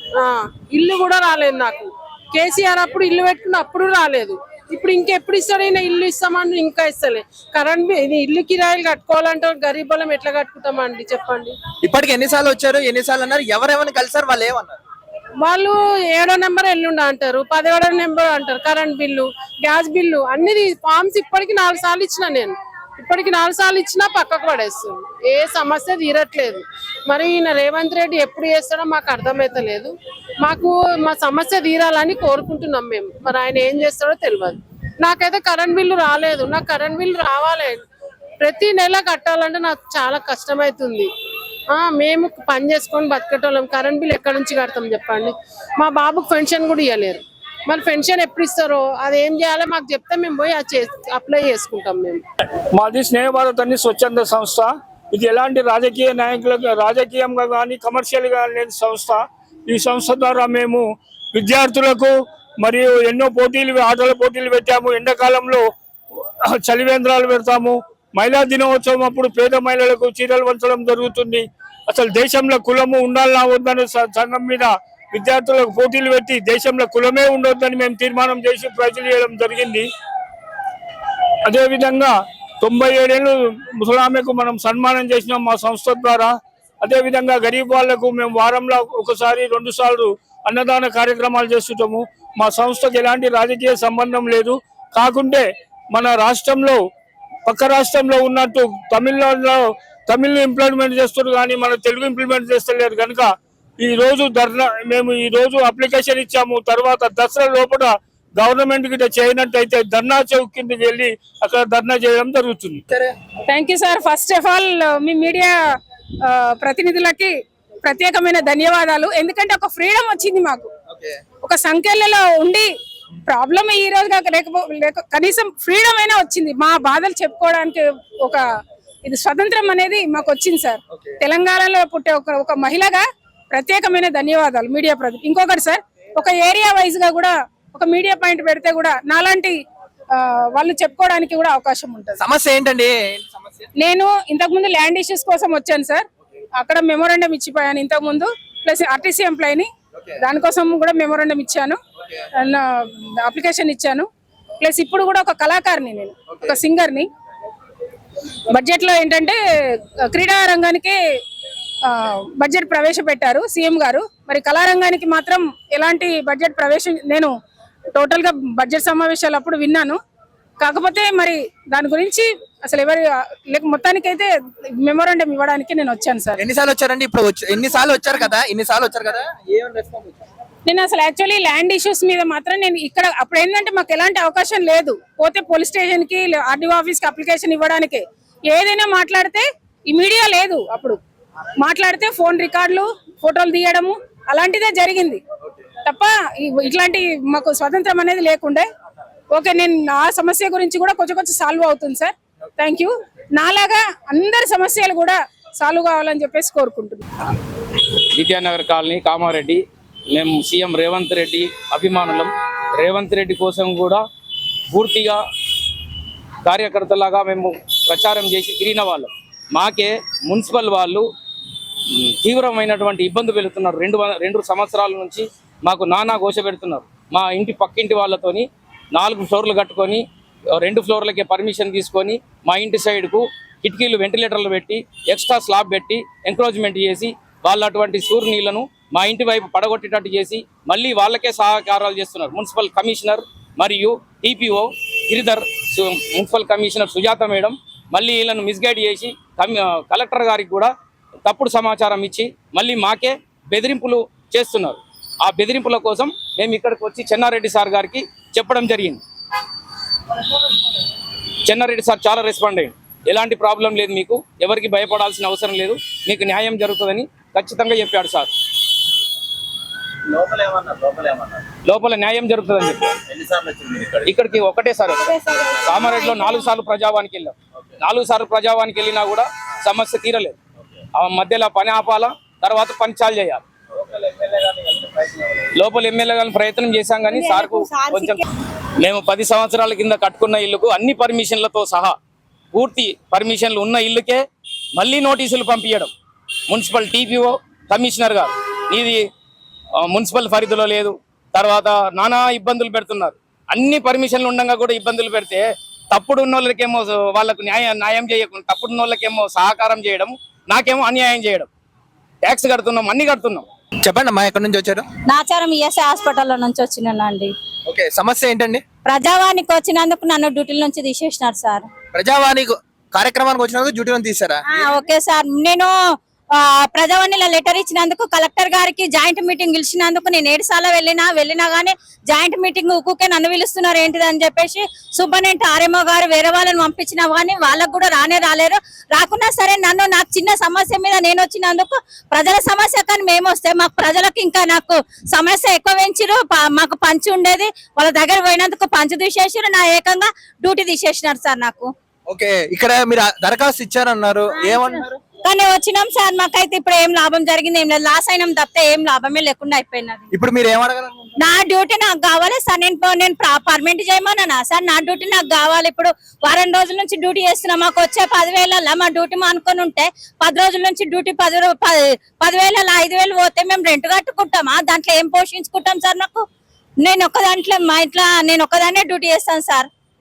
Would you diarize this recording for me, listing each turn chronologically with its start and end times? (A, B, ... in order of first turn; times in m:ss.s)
0:00.2-0:11.6 A
0:11.8-0:14.8 B
0:15.4-0:29.9 A
0:30.4-0:37.8 A
0:38.4-0:41.1 A
0:41.7-0:52.2 A
0:52.8-1:00.8 C
1:01.3-1:05.6 C
1:06.6-1:19.9 C
1:21.5-1:36.8 C
1:37.5-1:52.8 C
1:53.5-1:55.6 D
1:56.2-2:00.7 D
2:00.9-2:01.2 B
2:01.4-2:02.7 D
2:03.3-2:08.4 D
2:09.0-2:19.6 D
2:20.1-2:22.2 D
2:22.2-2:23.7 B
2:23.8-2:26.1 D
2:26.6-2:31.8 D
2:32.4-2:34.1 D
2:34.6-2:37.1 D
2:38.5-2:39.4 D
2:40.1-2:41.0 D
2:41.8-2:47.3 D
2:48.0-2:50.0 D
2:50.6-2:56.4 D
2:56.4-3:00.2 B
3:00.7-3:11.0 D
3:11.6-3:15.2 D
3:15.8-3:18.7 D
3:19.3-3:27.0 D
3:28.2-3:29.6 E
3:30.1-3:34.0 E
3:34.7-3:35.2 E
3:36.4-3:41.1 E
3:42.1-3:50.0 E
3:50.6-4:10.7 E
4:11.3-4:19.0 E
4:21.5-4:28.3 E
4:30.2-4:40.4 E
4:35.3-4:36.3 F
4:41.0-4:48.2 E
4:47.1-4:48.2 F
4:48.8-4:52.0 E
4:52.5-4:54.2 E
4:54.8-4:55.9 E
4:56.5-4:59.1 E
4:59.8-5:11.5 E
5:12.2-5:13.5 E
5:13.8-5:14.9 B
5:15.1-5:17.3 F
5:17.7-5:18.6 B
5:18.9-5:21.7 F
5:22.0-5:24.4 B
5:24.5-5:25.7 F
5:26.3-5:51.7 F
5:52.1-5:55.0 B
5:54.4-6:00.1 F
6:00.1-6:01.1 B
6:01.2-6:16.2 F
6:16.8-6:19.7 F